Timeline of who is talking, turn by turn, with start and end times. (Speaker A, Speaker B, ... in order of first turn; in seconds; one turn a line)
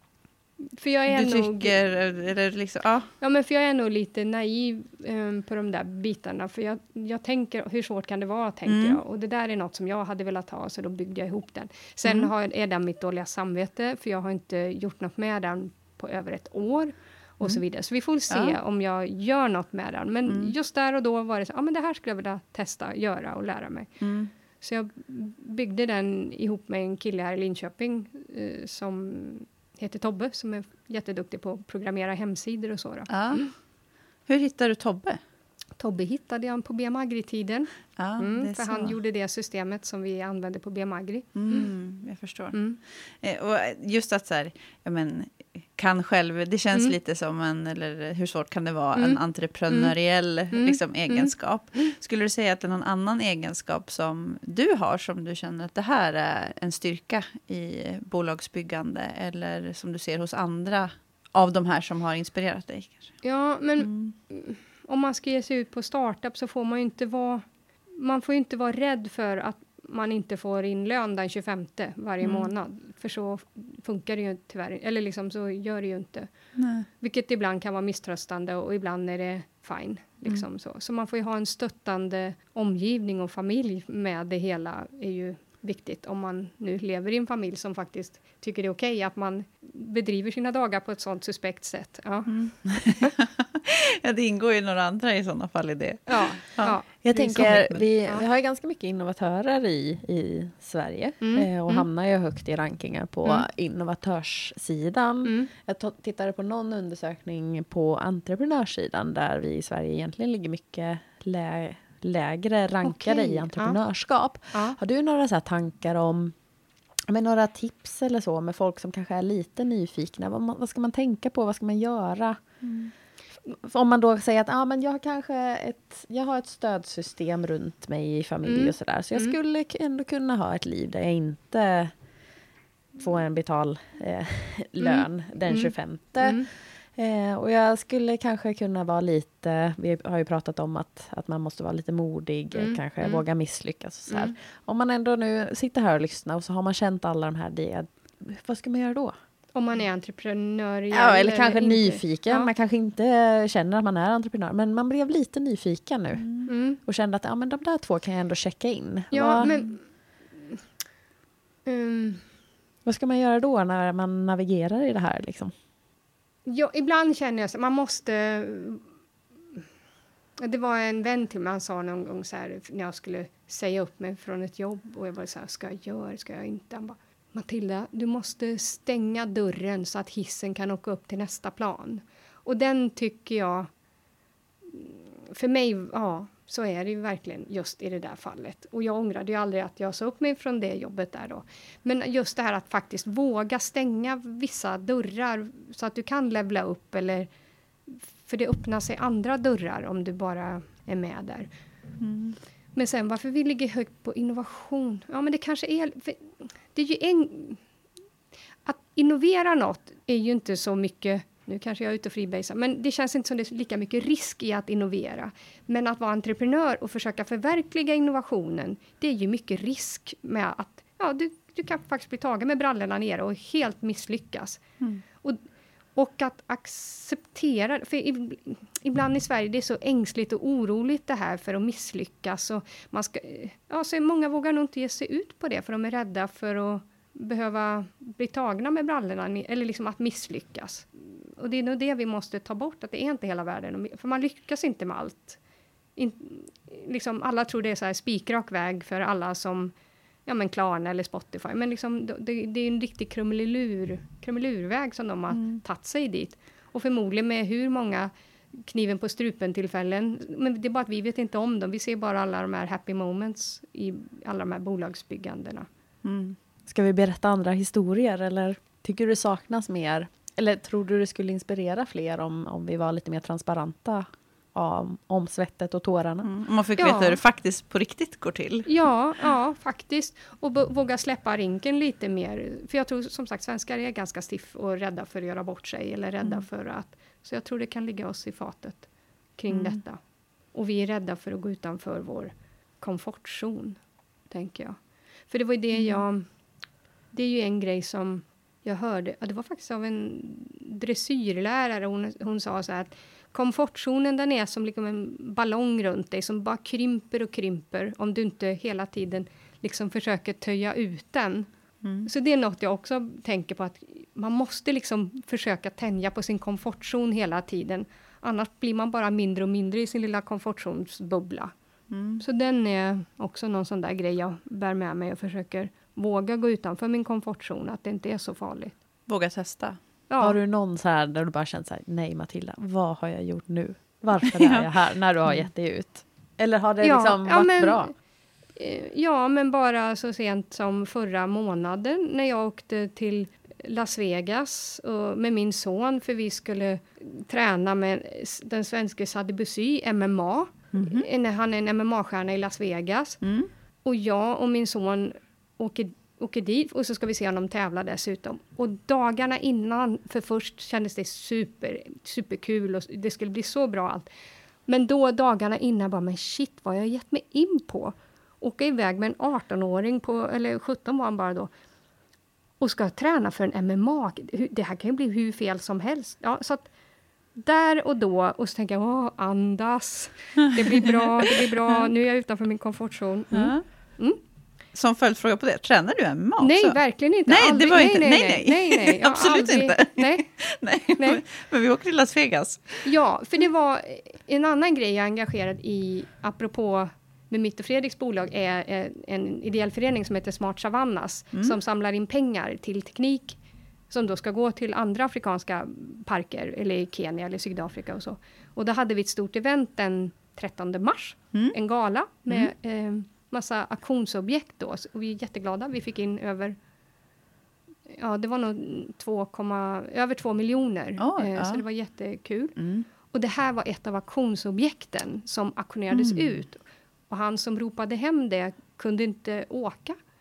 Speaker A: 0.8-1.7
Speaker B: 1.1-3.1
Speaker A: 3.2-24.0
Speaker B: 8.7-9.0
Speaker B: 12.0-12.3
Speaker B: 18.3-18.6
Speaker B: 20.2-20.5
Speaker B: 24.0-24.3
Speaker A: 24.6-33.5
Speaker B: 33.1-33.5
Speaker B: 34.3-35.2
Speaker A: 35.8-41.7
Speaker B: 38.0-39.0
Speaker B: 41.3-63.2
Speaker A: 42.5-42.8
Speaker A: 48.9-49.9
Speaker A: 50.5-51.9
Speaker A: 63.2-76.3
Speaker B: 63.8-64.1
Speaker B: 72.2-72.5
Speaker B: 76.5-76.9
Speaker A: 76.9-92.5
Speaker B: 92.3-97.8
Speaker A: 96.1-98.2
Speaker C: 97.0-116.3
Speaker A: 101.2-101.8
Speaker A: 105.2-105.5
Speaker A: 112.8-113.8
Speaker A: 114.5-114.8
Speaker C: 117.1-122.4
Speaker C: 123.5-131.9
Speaker A: 128.4-129.3
Speaker C: 132.9-149.1
Speaker A: 134.8-136.5
Speaker A: 142.5-143.2
Speaker A: 144.1-144.3
Speaker A: 149.5-152.5
Speaker C: 150.9-159.5
Speaker B: 156.2-156.5
Speaker A: 156.4-156.8
Speaker A: 159.1-159.8
Speaker A: 161.7-162.2
Speaker C: 162.8-165.5
Speaker A: 166.5-168.8
Speaker A: 170.4-183.7
Speaker A: 184.7-197.3
Speaker A: 197.9-201.5
Speaker B: 202.0-202.4
Speaker A: 202.7-207.6
Speaker A: 208.6-225.4
Speaker A: 225.9-245.4
Speaker A: 245.9-249.7
Speaker A: 250.2-265.7
Speaker B: 255.3-255.6
Speaker B: 266.0-266.4
Speaker C: 266.7-276.3
Speaker B: 276.2-278.7
Speaker A: 276.8-277.2
Speaker A: 278.6-290.0
Speaker B: 289.5-289.8
Speaker A: 290.5-293.8
Speaker A: 294.3-296.3
Speaker B: 295.7-296.0
Speaker A: 297.1-311.5
Speaker B: 311.8-312.1
Speaker A: 312.0-321.5
Speaker B: 321.9-322.2
Speaker A: 322.2-328.8
Speaker B: 329.1-329.8
Speaker A: 330.1-330.4
Speaker C: 330.2-337.9
Speaker B: 334.2-334.7
Speaker A: 336.8-337.9
Speaker A: 338.6-353.2
Speaker B: 350.7-351.1
Speaker B: 353.2-353.5
Speaker A: 353.8-364.1
Speaker A: 364.6-371.5
Speaker A: 372.6-376.7
Speaker A: 377.3-384.2
Speaker B: 380.7-381.9
Speaker B: 383.3-383.6
Speaker B: 384.7-392.9
Speaker A: 386.4-390.3
Speaker A: 391.0-391.2
Speaker A: 392.8-403.4
Speaker A: 403.9-416.6
Speaker A: 417.9-430.0
Speaker B: 421.0-421.6
Speaker B: 422.6-422.9
Speaker B: 425.9-426.4